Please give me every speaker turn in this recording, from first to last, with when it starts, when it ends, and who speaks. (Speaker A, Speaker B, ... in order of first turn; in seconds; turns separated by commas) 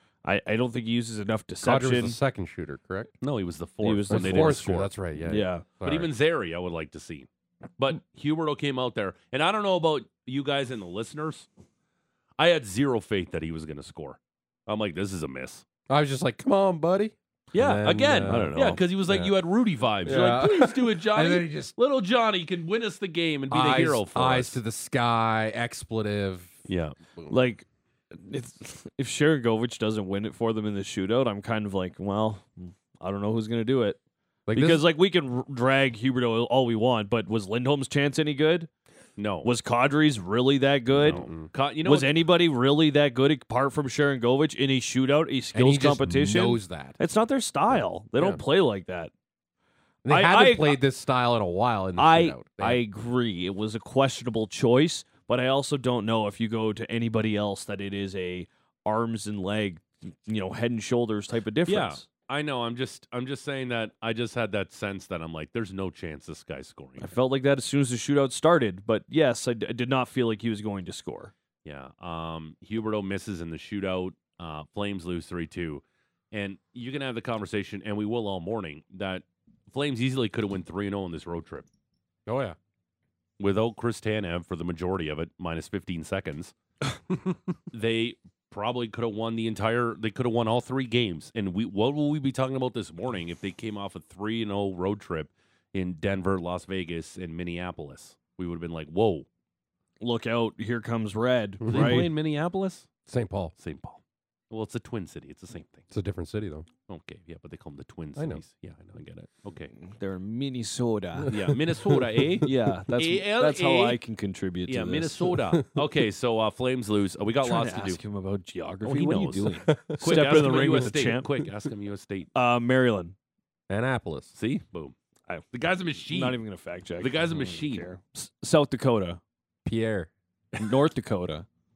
Speaker A: 0.2-2.2, Speaker B: 1.6-3.1, Speaker C: 3.2-4.9, Speaker A: 3.8-4.7, Speaker B: 4.1-6.1, Speaker A: 5.3-5.7, Speaker C: 5.8-11.5, Speaker C: 12.4-15.6, Speaker B: 15.9-19.3, Speaker C: 17.5-24.6, Speaker A: 18.3-18.8, Speaker B: 20.0-21.7, Speaker B: 23.5-26.6, Speaker C: 26.7-26.9, Speaker A: 27.3-34.0, Speaker B: 34.5-34.9, Speaker A: 34.5-38.7, Speaker C: 39.2-39.5, Speaker A: 39.4-41.2, Speaker C: 40.9-42.1, Speaker B: 41.1-41.5, Speaker A: 41.9-49.1, Speaker B: 45.5-47.0, Speaker B: 50.0-52.8, Speaker A: 50.1-50.8, Speaker A: 52.0-62.0, Speaker C: 61.7-67.1, Speaker A: 67.0-71.3, Speaker C: 71.6-81.7, Speaker B: 82.3-82.6, Speaker C: 83.4-86.5, Speaker B: 87.1-87.4, Speaker C: 87.7-99.3, Speaker A: 100.0-102.1, Speaker B: 101.6-102.0, Speaker C: 101.7-102.9, Speaker B: 103.1-103.5, Speaker C: 103.6-105.8, Speaker B: 105.9-106.7, Speaker C: 106.9-109.7, Speaker B: 108.2-108.4, Speaker A: 109.8-111.3, Speaker B: 111.2-112.4, Speaker C: 111.3-114.0, Speaker A: 112.4-115.4, Speaker C: 114.7-118.0, Speaker B: 115.5-115.8, Speaker A: 117.4-121.3, Speaker C: 118.8-122.3, Speaker B: 119.7-120.0, Speaker A: 122.3-123.2, Speaker B: 123.7-124.3, Speaker C: 124.3-125.0, Speaker C: 125.5-126.4, Speaker A: 126.1-129.2, Speaker C: 127.0-127.9, Speaker B: 129.7-130.1, Speaker A: 130.6-131.5